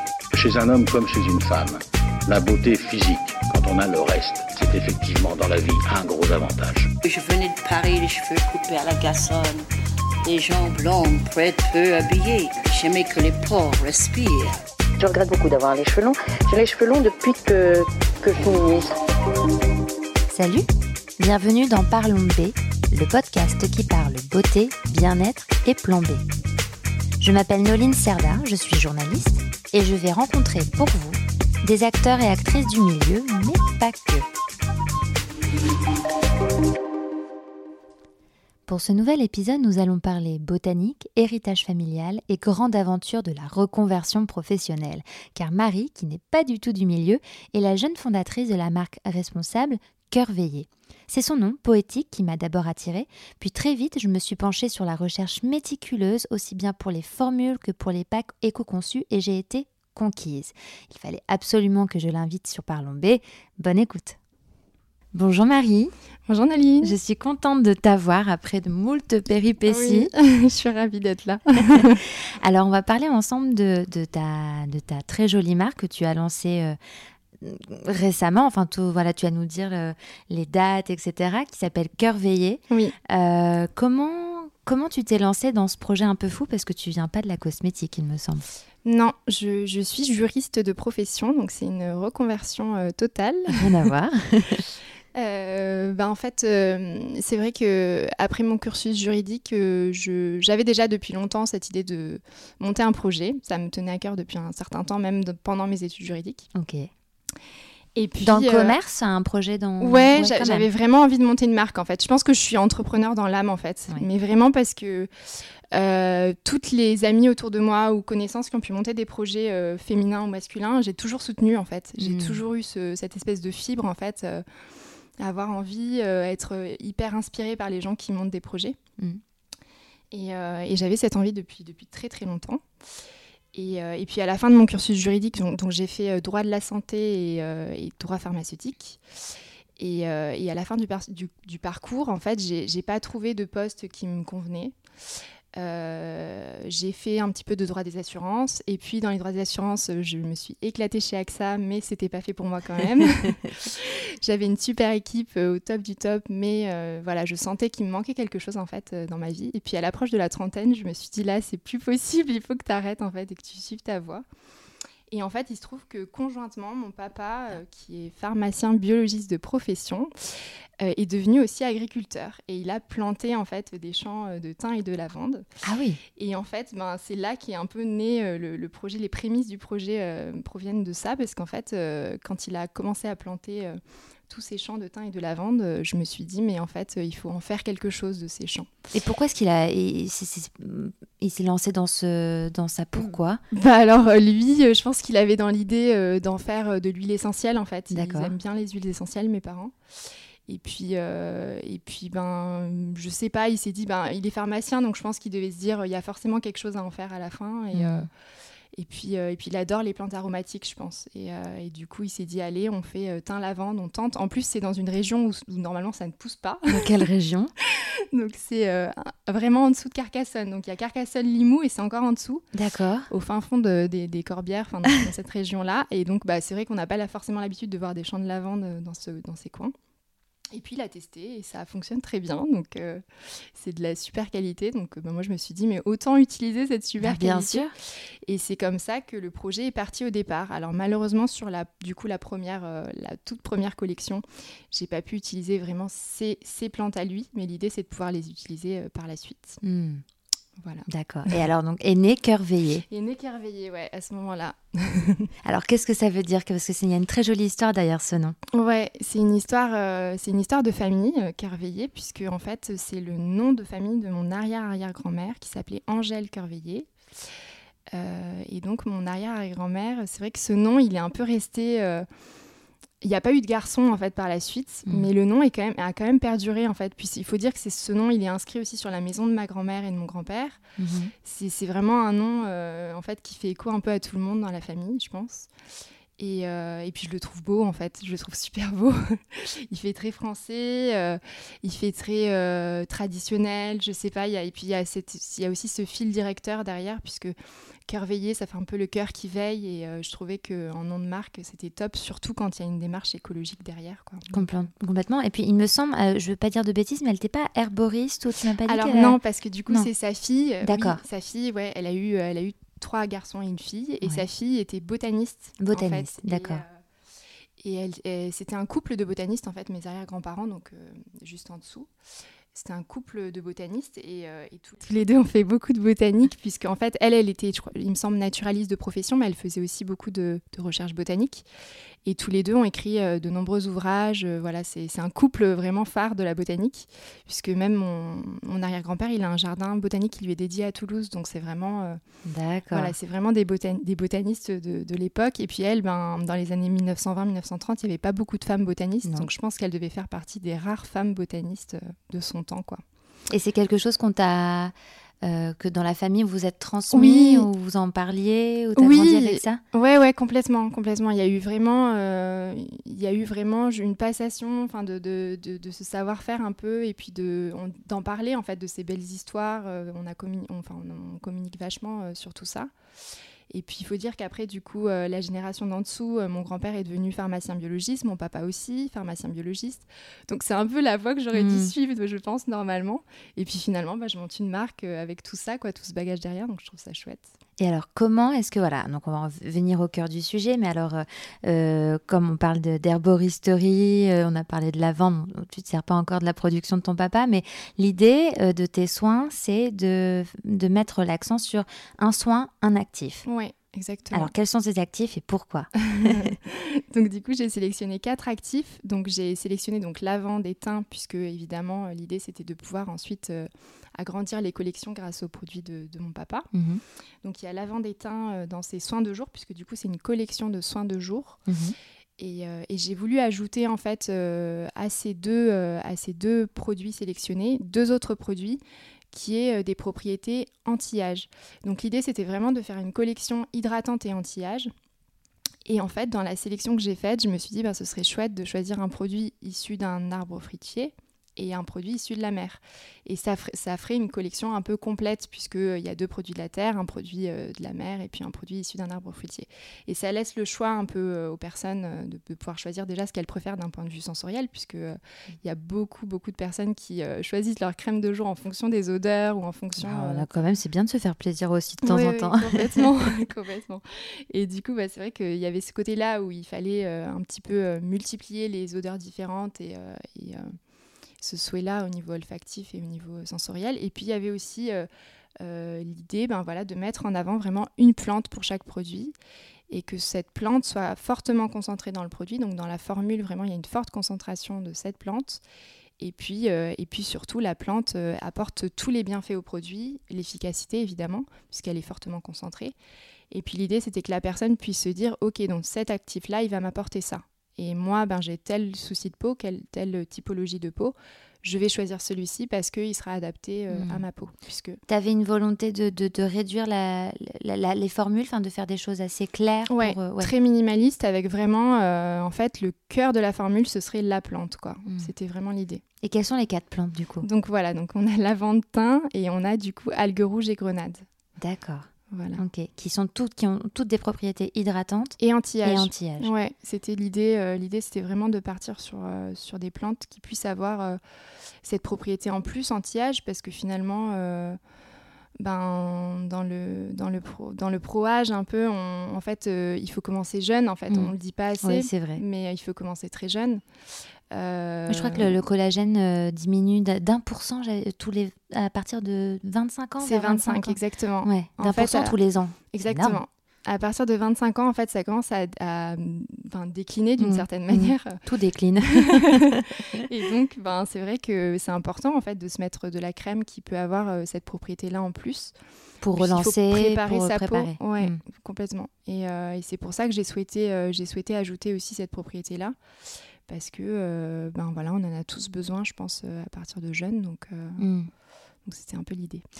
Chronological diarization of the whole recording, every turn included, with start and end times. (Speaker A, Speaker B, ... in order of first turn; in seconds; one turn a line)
Speaker A: 0.3-6.9
Speaker B: 7.0-9.7
Speaker B: 10.2-14.6
Speaker C: 15.0-18.9
Speaker D: 20.3-20.7
Speaker D: 21.2-26.2
Speaker D: 27.2-34.3
Speaker D: 38.7-64.2
Speaker D: 65.1-65.9
Speaker E: 66.3-67.0
Speaker D: 66.8-70.1
Speaker E: 69.7-72.0
Speaker D: 71.7-76.8
Speaker D: 77.4-88.5
Speaker E: 88.8-93.6
Speaker D: 93.5-94.7
Speaker E: 95.1-106.5
Speaker D: 106.5-106.9
Speaker E: 108.0-108.8
Speaker D: 108.2-110.7
Speaker E: 109.8-115.1
Speaker E: 115.7-124.5
Speaker D: 122.0-122.4
Speaker E: 125.2-128.8
Speaker E: 130.1-132.7
Speaker E: 133.5-139.0
Speaker E: 139.8-144.8
Speaker E: 145.5-164.2
Speaker E: 165.1-170.1
Speaker E: 170.8-175.5
Speaker D: 175.6-176.0
Speaker E: 176.2-188.7
Speaker D: 188.9-193.4
Speaker E: 193.5-199.8
Speaker D: 197.9-198.3
Speaker E: 200.5-208.1
Speaker D: 207.7-208.1
Speaker E: 208.8-216.9
Speaker D: 216.7-217.5
Speaker E: 217.6-222.4
Speaker D: 222.5-223.1
Speaker E: 223.1-229.7
Speaker E: 230.5-237.7
Speaker D: 237.0-237.7
Speaker E: 238.2-249.6
Speaker D: 249.6-250.0
Speaker E: 250.6-251.3
Speaker D: 250.9-252.8
Speaker E: 252.9-255.3
Speaker D: 255.4-258.4
Speaker E: 258.5-266.9
Speaker E: 267.9-272.1
Speaker E: 273.0-280.6
Speaker D: 280.8-281.1
Speaker E: 281.2-285.5
Speaker E: 286.2-297.4
Speaker E: 297.9-304.5
Speaker D: 304.3-309.2
Speaker E: 308.7-316.8
Speaker D: 310.6-311.0
Speaker D: 315.6-316.6
Speaker E: 317.6-321.9
Speaker E: 322.5-331.5
Speaker E: 332.0-342.0
Speaker D: 342.3-342.9
Speaker E: 342.7-352.8
Speaker D: 353.3-359.6
Speaker E: 356.9-357.5
Speaker E: 358.8-372.7
Speaker E: 373.5-387.4
Speaker D: 381.3-381.7
Speaker D: 387.6-403.3
Speaker E: 403.3-404.3
Speaker D: 404.1-406.4
Speaker E: 405.8-416.5
Speaker D: 416.5-416.8
Speaker E: 417.2-421.4
Speaker D: 421.5-421.8
Speaker E: 422.2-434.7
Speaker E: 435.7-460.3
Speaker D: 459.8-462.9
Speaker E: 461.8-470.6
Speaker E: 471.2-474.9
Speaker E: 475.4-479.1
Speaker E: 479.7-485.4
Speaker E: 486.0-492.8
Speaker E: 493.3-504.8
Speaker D: 503.7-504.0
Speaker D: 504.9-510.3
Speaker E: 509.7-515.8
Speaker D: 516.0-517.3
Speaker E: 517.2-521.0
Speaker D: 521.4-526.3
Speaker E: 522.1-522.4
Speaker E: 525.2-531.0
Speaker E: 531.6-534.6
Speaker E: 535.4-543.6
Speaker D: 540.9-542.2
Speaker E: 544.3-545.4
Speaker D: 544.9-553.2
Speaker E: 550.0-552.2
Speaker E: 552.7-558.2
Speaker D: 557.2-560.0
Speaker E: 558.9-565.6
Speaker D: 566.0-568.2
Speaker E: 566.1-572.8
Speaker E: 573.5-577.8
Speaker D: 577.8-578.1
Speaker E: 578.6-579.4